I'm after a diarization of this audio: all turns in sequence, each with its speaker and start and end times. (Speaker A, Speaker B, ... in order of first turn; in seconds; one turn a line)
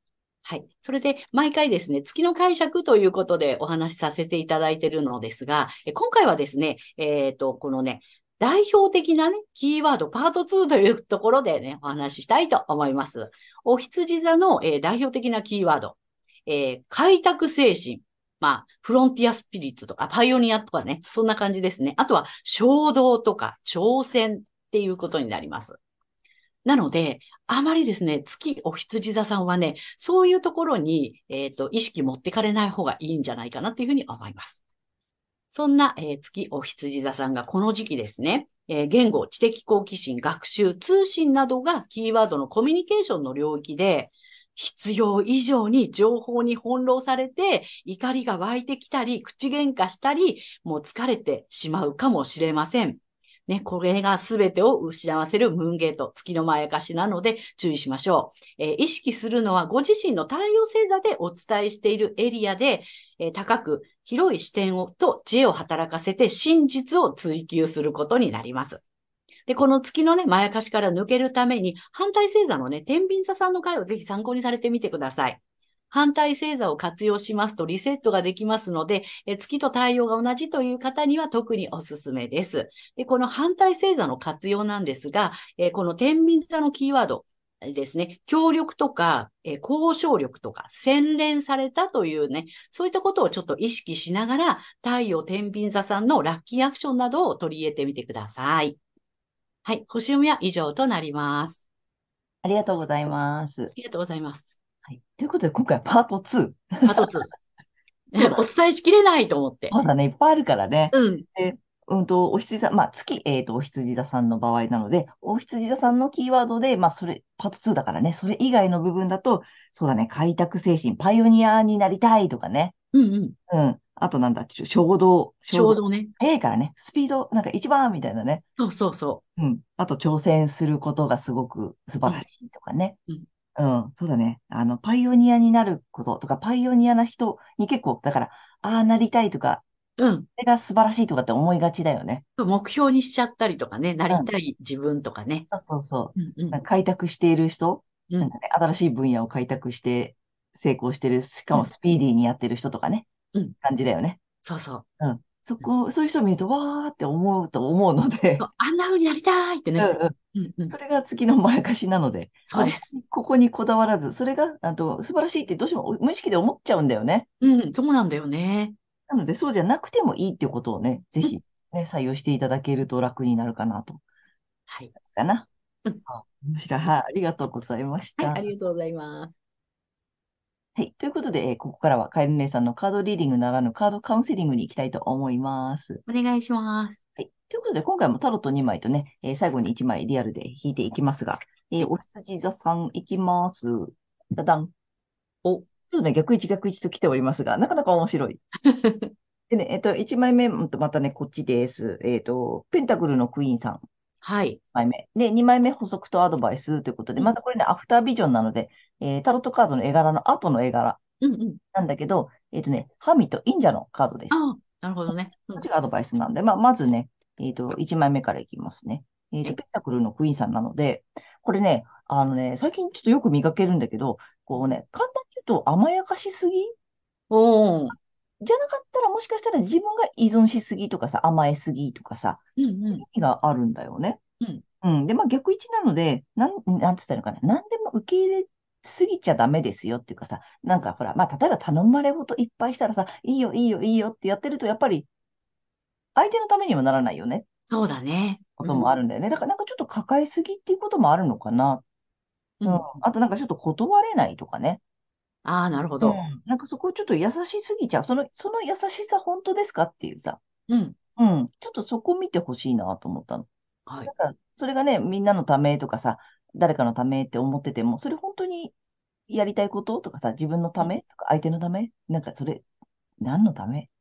Speaker A: 0.4-25.8
Speaker A: 26.6-34.6
Speaker A: 35.5-68.8
Speaker A: 69.5-98.8
Speaker A: 99.6-101.6
Speaker B: 102.4-103.7
Speaker A: 103.7-104.6
Speaker B: 104.8-107.1
Speaker A: 106.8-107.3
Speaker A: 108.1-109.8
Speaker B: 108.2-108.5
Speaker B: 109.7-122.7
Speaker A: 110.9-111.2
Speaker A: 122.9-123.3
Speaker B: 123.5-128.4
Speaker A: 125.5-126.1
Speaker A: 128.6-129.2
Speaker B: 129.4-133.0
Speaker B: 133.6-139.6
Speaker A: 140.0-140.3
Speaker B: 140.3-142.2
Speaker A: 142.4-145.5
Speaker B: 145.5-153.1
Speaker A: 146.2-146.6
Speaker B: 153.6-154.2
Speaker A: 154.4-154.8
Speaker B: 155.0-158.4
Speaker A: 158.4-160.7
Speaker B: 159.8-160.2
Speaker B: 160.7-167.3
Speaker A: 162.5-162.9
Speaker A: 167.4-168.8
Speaker B: 169.1-174.0
Speaker A: 174.7-174.9
Speaker B: 174.9-175.5
Speaker B: 176.1-178.4
Speaker A: 178.2-179.3
Speaker B: 180.8-186.0
Speaker A: 186.1-187.0
Speaker B: 187.2-194.7
Speaker B: 195.9-198.4
Speaker A: 198.6-199.1
Speaker B: 199.5-203.8
Speaker A: 204.2-204.6
Speaker B: 204.7-211.0
Speaker A: 211.2-211.6
Speaker B: 211.7-214.4
Speaker A: 214.3-215.7
Speaker B: 215.1-226.7
Speaker A: 227.3-227.9
Speaker B: 228.4-234.2
Speaker A: 232.6-233.0
Speaker B: 234.8-245.1
Speaker B: 246.1-247.4
Speaker A: 247.7-248.9
Speaker B: 248.6-251.8
Speaker A: 252.6-252.9
Speaker B: 252.7-254.8
Speaker A: 255.4-256.2
Speaker B: 256.0-260.4
Speaker A: 260.7-261.0
Speaker B: 261.2-263.5
Speaker B: 264.1-268.7
Speaker B: 269.3-272.6
Speaker B: 273.2-273.9